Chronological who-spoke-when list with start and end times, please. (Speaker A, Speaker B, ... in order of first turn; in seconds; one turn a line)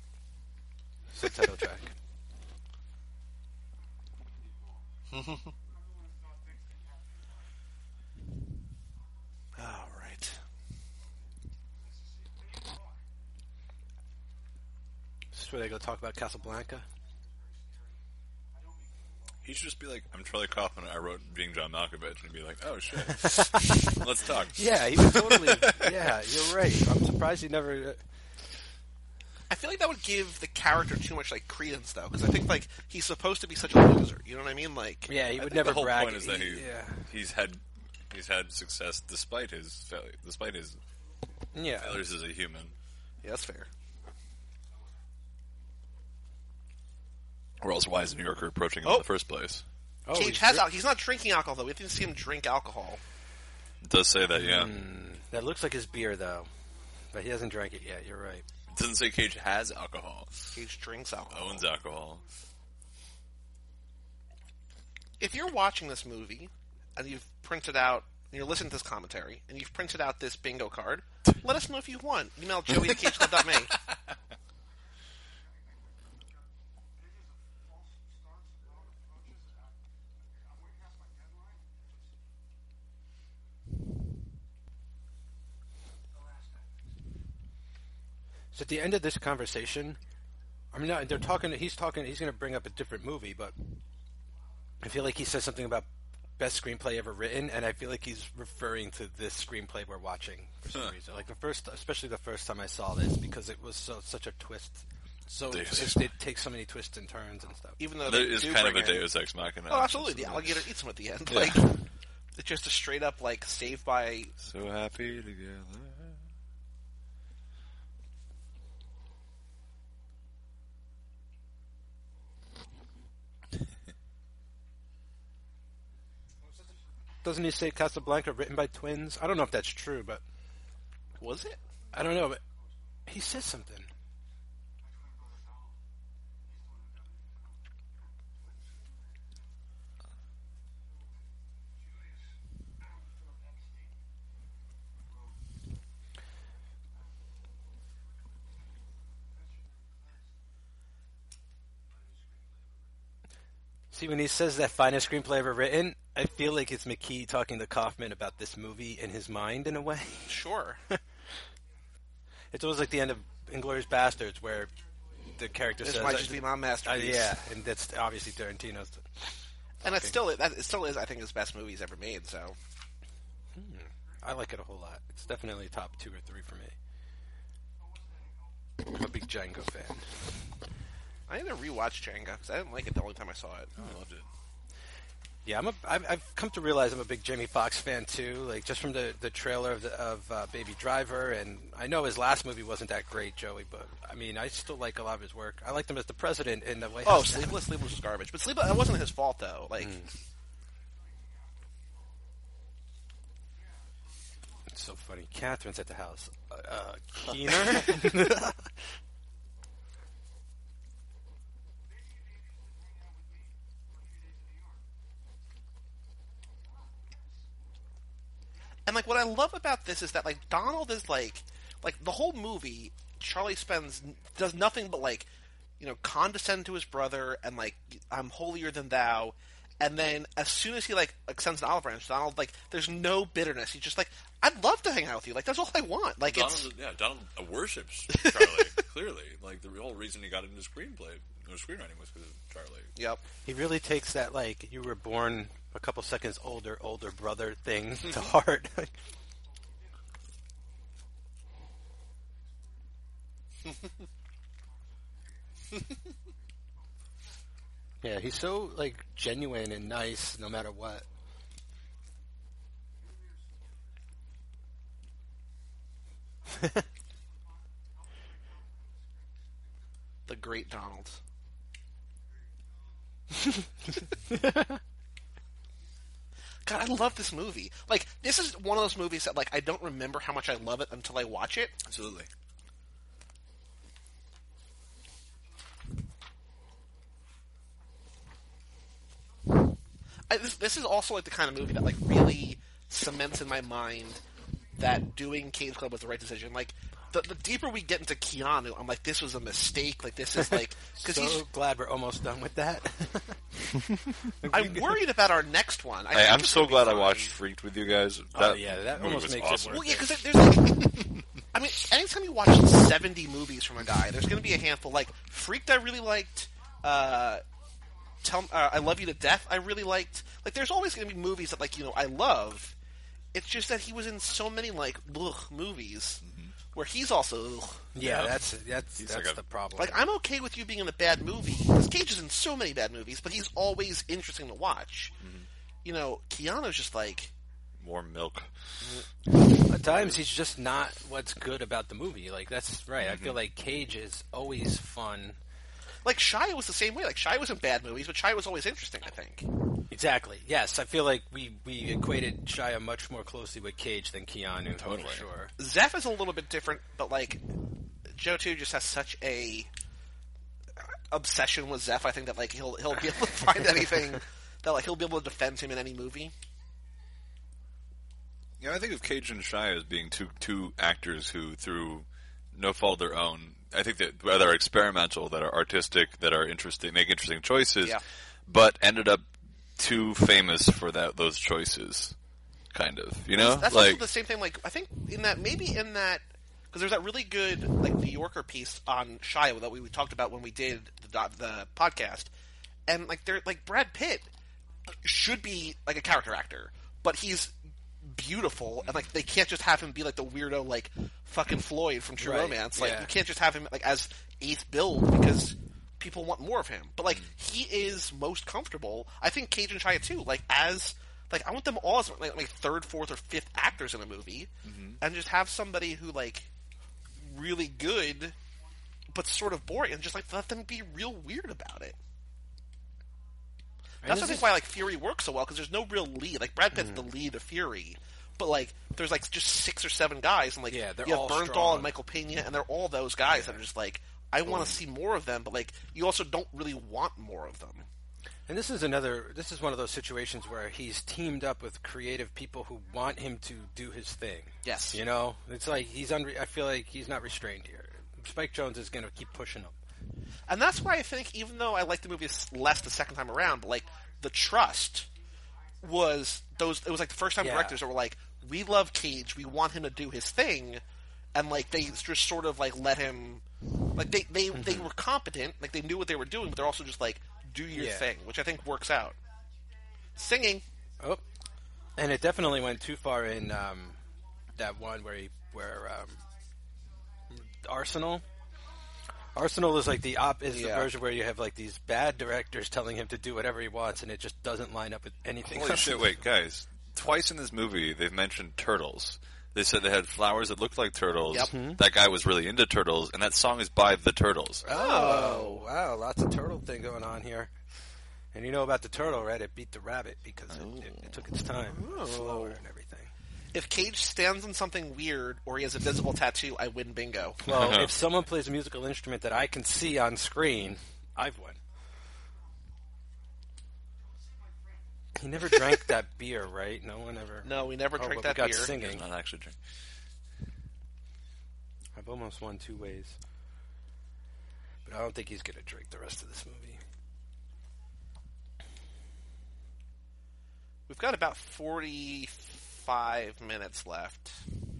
Speaker A: 1.1-1.9
Speaker B: 9.6-10.4
Speaker A: 15.3-16.9
Speaker C: 19.4-26.1
Speaker A: 23.1-23.9
Speaker A: 24.6-28.0
Speaker B: 29.5-35.1
Speaker A: 35.1-37.1
Speaker C: 35.4-40.8
Speaker A: 41.5-42.0
Speaker C: 41.8-42.7
Speaker B: 43.2-43.7
Speaker C: 47.6-49.6
Speaker A: 50.1-50.6
Speaker B: 50.1-53.0
Speaker C: 53.8-54.8
Speaker A: 54.3-56.5
Speaker A: 57.1-58.5
Speaker C: 58.7-60.6
Speaker B: 60.5-61.6
Speaker C: 61.3-62.2
Speaker B: 65.2-73.8
Speaker A: 88.5-90.0
Speaker A: 90.7-93.5
Speaker A: 94.8-95.9
Speaker A: 96.4-107.8
Speaker C: 105.5-106.1
Speaker B: 107.8-109.1
Speaker C: 108.0-110.6
Speaker B: 109.7-111.8
Speaker C: 111.3-111.6
Speaker B: 112.4-114.3
Speaker C: 114.4-116.2
Speaker A: 127.2-130.2
Speaker B: 131.2-131.6
Speaker A: 131.9-132.4
Speaker A: 133.1-133.9
Speaker A: 153.9-160.4
Speaker B: 160.3-160.8
Speaker A: 162.5-164.7
Speaker A: 165.3-169.3
Speaker B: 165.8-167.4
Speaker B: 169.8-172.6
Speaker A: 169.8-170.2
Speaker A: 173.5-176.8
Speaker A: 178.8-180.4
Speaker B: 181.3-183.8
Speaker C: 183.8-184.3
Speaker A: 185.4-197.6
Speaker B: 197.0-200.0
Speaker A: 199.8-200.1
Speaker A: 204.7-208.8
Speaker B: 218.9-225.3
Speaker B: 225.8-236.7
Speaker C: 236.3-242.9
Speaker B: 238.1-238.7
Speaker B: 243.0-243.2
Speaker A: 243.4-248.9
Speaker A: 258.0-261.1
Speaker B: 270.3-271.2
Speaker A: 274.2-274.8
Speaker B: 276.6-281.8
Speaker C: 281.9-282.3
Speaker B: 290.3-294.2
Speaker B: 294.8-301.4
Speaker A: 300.4-303.7
Speaker A: 304.4-305.0
Speaker B: 304.5-307.4
Speaker C: 306.1-310.0
Speaker A: 308.3-310.1
Speaker B: 309.7-317.4
Speaker B: 318.2-322.7
Speaker B: 323.3-327.9
Speaker C: 326.2-326.6
Speaker A: 327.9-330.0
Speaker C: 328.0-328.4
Speaker C: 329.0-329.4
Speaker B: 329.8-335.1
Speaker C: 335.2-335.5
Speaker B: 335.8-337.3
Speaker C: 337.8-338.5
Speaker A: 339.7-345.4
Speaker C: 343.0-343.4
Speaker B: 346.1-349.5
Speaker A: 349.9-355.5
Speaker C: 354.8-355.3
Speaker B: 355.6-357.4
Speaker B: 358.1-359.7
Speaker B: 361.1-366.3
Speaker C: 368.6-382.2
Speaker C: 382.7-384.0
Speaker B: 383.3-392.3
Speaker B: 392.9-394.3
Speaker B: 395.0-416.5
Speaker A: 402.2-403.1
Speaker C: 414.6-415.0
Speaker B: 417.2-418.4
Speaker B: 419.1-422.0
Speaker A: 424.0-424.5
Speaker B: 424.1-437.9
Speaker A: 426.7-427.0
Speaker A: 430.7-431.9
Speaker A: 434.5-434.8
Speaker A: 438.5-449.8
Speaker B: 444.6-445.0
Speaker B: 450.5-455.1
Speaker B: 455.8-460.8
Speaker A: 457.4-457.8
Speaker B: 461.4-469.2
Speaker A: 464.5-464.9
Speaker A: 467.7-468.1
Speaker B: 470.1-470.6
Speaker A: 471.0-471.2
Speaker A: 472.0-474.0
Speaker A: 474.6-476.2
Speaker A: 477.4-478.2
Speaker A: 479.3-486.2
Speaker B: 480.5-480.9
Speaker C: 485.5-494.7
Speaker A: 491.5-491.8
Speaker A: 494.6-497.5
Speaker B: 494.7-495.6
Speaker A: 498.3-503.1
Speaker C: 500.5-501.1
Speaker B: 501.7-502.6
Speaker B: 503.5-507.5
Speaker A: 507.4-511.6
Speaker C: 507.5-507.9
Speaker A: 515.1-519.0
Speaker B: 517.4-518.7
Speaker C: 518.7-519.6
Speaker A: 522.0-523.2
Speaker A: 524.9-526.8
Speaker B: 530.9-534.4